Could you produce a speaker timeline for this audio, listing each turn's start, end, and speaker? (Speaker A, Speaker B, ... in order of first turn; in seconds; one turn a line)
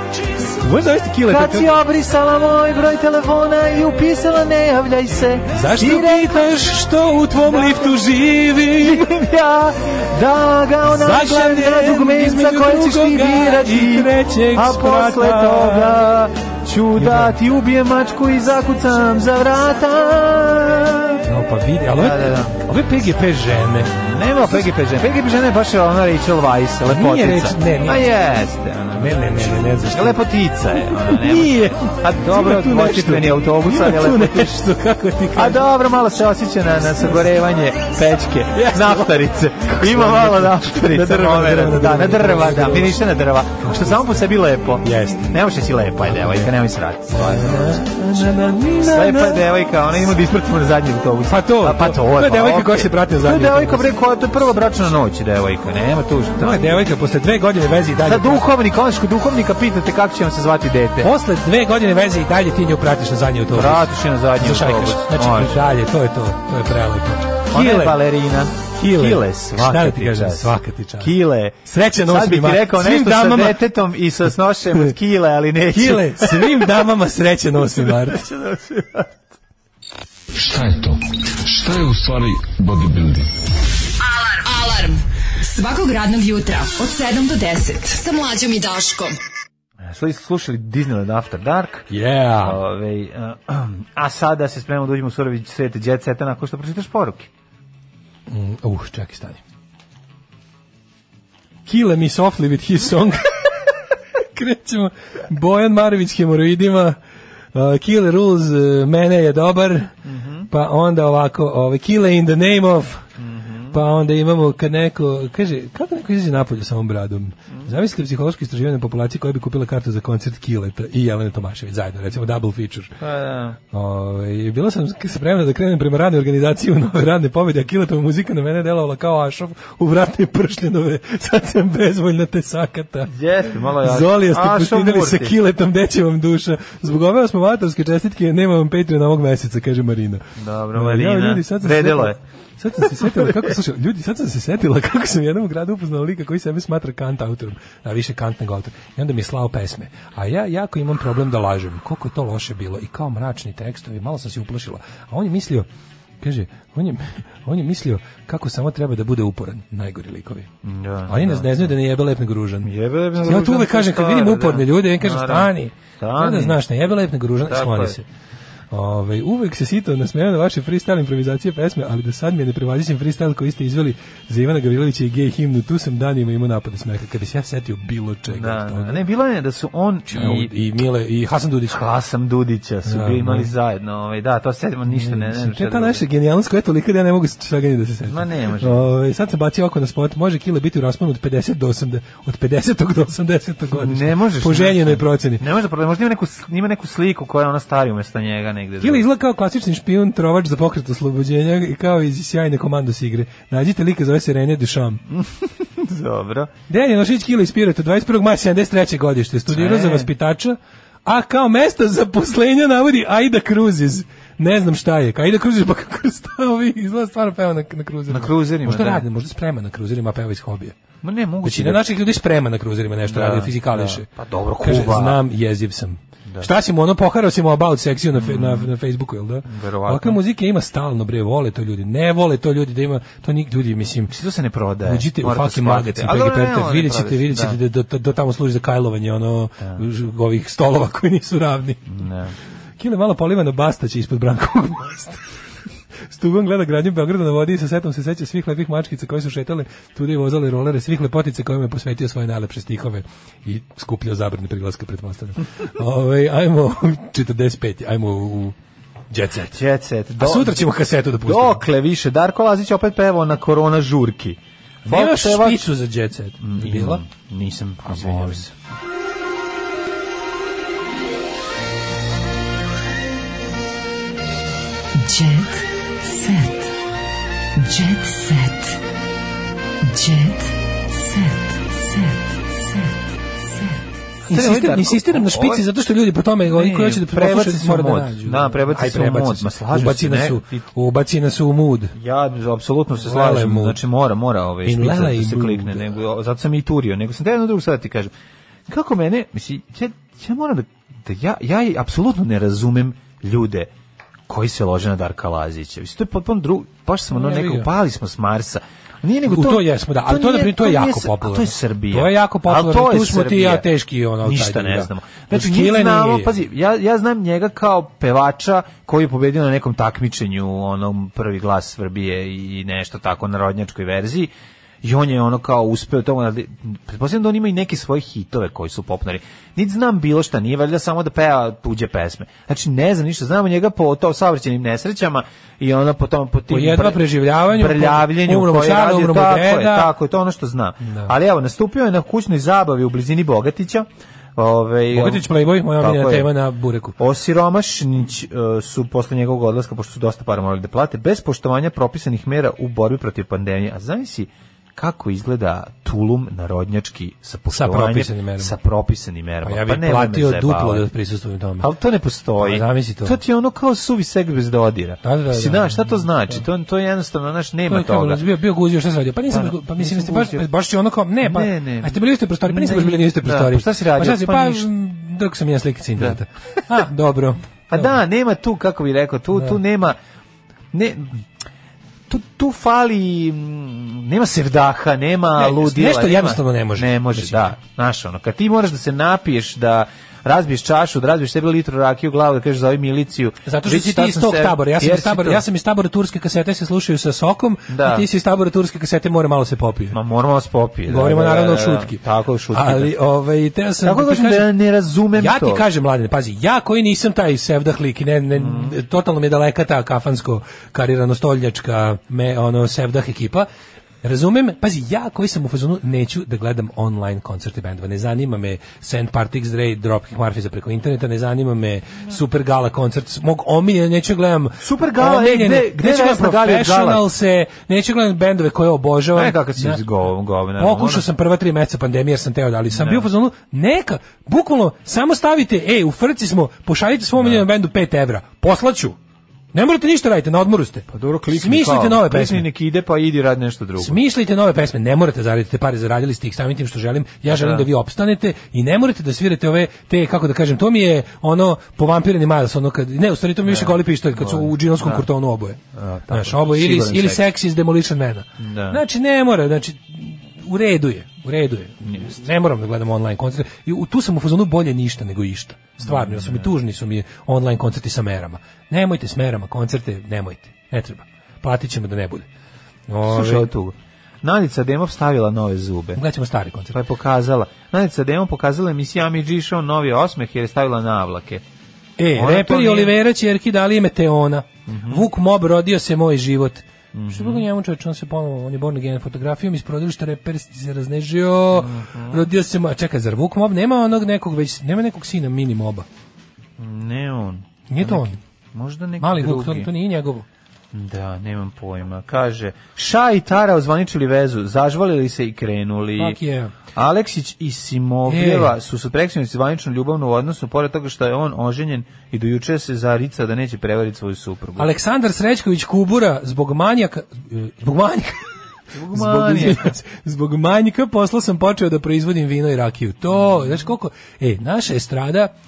Speaker A: 0.6-1.7
Speaker B: 1.3-6.5
Speaker A: 5.5-9.2
Speaker B: 7.5-8.0
Speaker B: 8.8-21.2
Speaker A: 10.8-16.0
Speaker A: 17.0-17.4
Speaker A: 21.2-24.0
Speaker B: 22.0-22.6
Speaker B: 23.9-34.6
Speaker A: 26.9-28.1
Speaker A: 28.9-35.7
Speaker B: 35.3-47.9
Speaker A: 38.5-43.1
Speaker A: 43.6-44.2
Speaker A: 44.8-46.5
Speaker A: 47.1-49.5
Speaker B: 48.8-56.6
Speaker A: 51.3-53.9
Speaker A: 56.4-58.5
Speaker B: 58.0-61.1
Speaker A: 61.0-68.0
Speaker B: 63.5-65.6
Speaker B: 67.5-76.6
Speaker A: 68.7-73.6
Speaker A: 75.7-78.3
Speaker B: 77.8-79.1
Speaker C: 80.3-83.3
Speaker D: 84.0-89.2
Speaker B: 89.8-91.9
Speaker A: 91.9-92.6
Speaker B: 92.4-97.3
Speaker A: 98.3-99.4
Speaker A: 101.7-107.0
Speaker A: 107.5-109.9
Speaker B: 110.0-110.5
Speaker A: 110.5-113.1
Speaker B: 113.2-113.8
Speaker A: 113.7-123.0
Speaker B: 123.0-123.6
Speaker A: 123.7-133.1
Speaker B: 133.1-135.4
Speaker A: 133.6-155.7
Speaker B: 140.4-142.2
Speaker B: 143.0-143.4
Speaker A: 156.2-160.5
Speaker B: 160.6-161.7
Speaker A: 161.1-168.1
Speaker B: 162.6-166.6
Speaker B: 167.5-168.0
Speaker A: 168.7-179.0
Speaker B: 178.3-180.5
Speaker A: 180.1-181.8
Speaker B: 181.7-186.0
Speaker A: 182.8-183.5
Speaker A: 184.9-195.4
Speaker B: 188.1-188.9
Speaker B: 193.7-199.1
Speaker A: 198.8-205.0
Speaker B: 205.1-206.5
Speaker A: 206.7-220.8
Speaker B: 209.5-210.1
Speaker B: 218.1-219.1
Speaker B: 221.0-221.9
Speaker A: 221.4-224.1
Speaker B: 223.1-225.2
Speaker A: 224.6-234.2
Speaker B: 228.2-228.7
Speaker B: 229.5-230.2
Speaker B: 234.1-237.6
Speaker A: 234.8-242.0
Speaker B: 241.9-242.3
Speaker A: 242.8-245.3
Speaker A: 246.1-258.6
Speaker A: 259.1-259.6
Speaker B: 259.5-260.7
Speaker A: 260.2-261.6
Speaker B: 261.2-265.7
Speaker A: 264.9-267.0
Speaker B: 266.4-268.5
Speaker A: 267.9-268.4
Speaker D: 274.9-276.6
Speaker D: 277.6-278.8
Speaker D: 279.8-283.0
Speaker D: 283.5-283.8
Speaker A: 284.3-291.9
Speaker B: 284.3-285.6
Speaker B: 286.5-290.7
Speaker B: 292.0-298.1
Speaker A: 293.0-293.8
Speaker A: 294.6-296.0
Speaker B: 298.7-303.7
Speaker B: 304.3-313.7
Speaker A: 307.1-307.7
Speaker A: 309.3-316.4
Speaker B: 314.2-324.3
Speaker B: 324.8-345.2
Speaker A: 336.5-339.9
Speaker A: 340.8-341.1
Speaker A: 344.9-347.0
Speaker B: 345.8-346.3
Speaker B: 347.0-360.9
Speaker A: 357.5-358.6
Speaker A: 359.4-361.7
Speaker B: 361.6-368.2
Speaker A: 362.4-363.2
Speaker A: 365.0-366.4
Speaker A: 367.7-378.0
Speaker B: 369.3-370.4
Speaker B: 371.2-374.7
Speaker B: 376.0-376.9
Speaker B: 377.7-380.0
Speaker A: 379.4-379.6
Speaker B: 380.7-381.3
Speaker B: 382.1-395.4
Speaker A: 385.4-387.5
Speaker A: 393.5-400.0
Speaker B: 397.7-398.1
Speaker B: 399.9-403.0
Speaker A: 400.9-402.0
Speaker A: 402.5-404.5
Speaker B: 403.8-405.6
Speaker A: 405.1-413.5
Speaker B: 408.4-408.8
Speaker A: 414.0-429.8
Speaker B: 424.6-427.1
Speaker B: 429.1-431.1
Speaker A: 430.6-439.0
Speaker B: 432.7-433.1
Speaker B: 437.2-437.4
Speaker A: 439.5-442.5
Speaker B: 440.9-444.0
Speaker A: 443.8-472.3
Speaker B: 447.3-447.7
Speaker B: 453.4-455.1
Speaker B: 455.7-457.3
Speaker B: 458.4-458.8
Speaker B: 461.8-462.1
Speaker B: 465.8-466.5
Speaker A: 472.9-473.5
Speaker B: 473.0-476.0
Speaker A: 475.9-476.8
Speaker B: 476.7-481.4
Speaker A: 482.0-495.9
Speaker B: 482.1-482.9
Speaker B: 484.7-485.1
Speaker B: 486.9-487.5
Speaker B: 491.5-492.3
Speaker B: 496.6-499.7
Speaker A: 497.7-498.2
Speaker A: 499.0-500.2
Speaker B: 500.7-506.2
Speaker A: 506.0-506.5
Speaker B: 506.7-514.7
Speaker A: 508.1-508.5
Speaker A: 514.6-518.2
Speaker B: 518.7-519.8
Speaker A: 518.9-525.3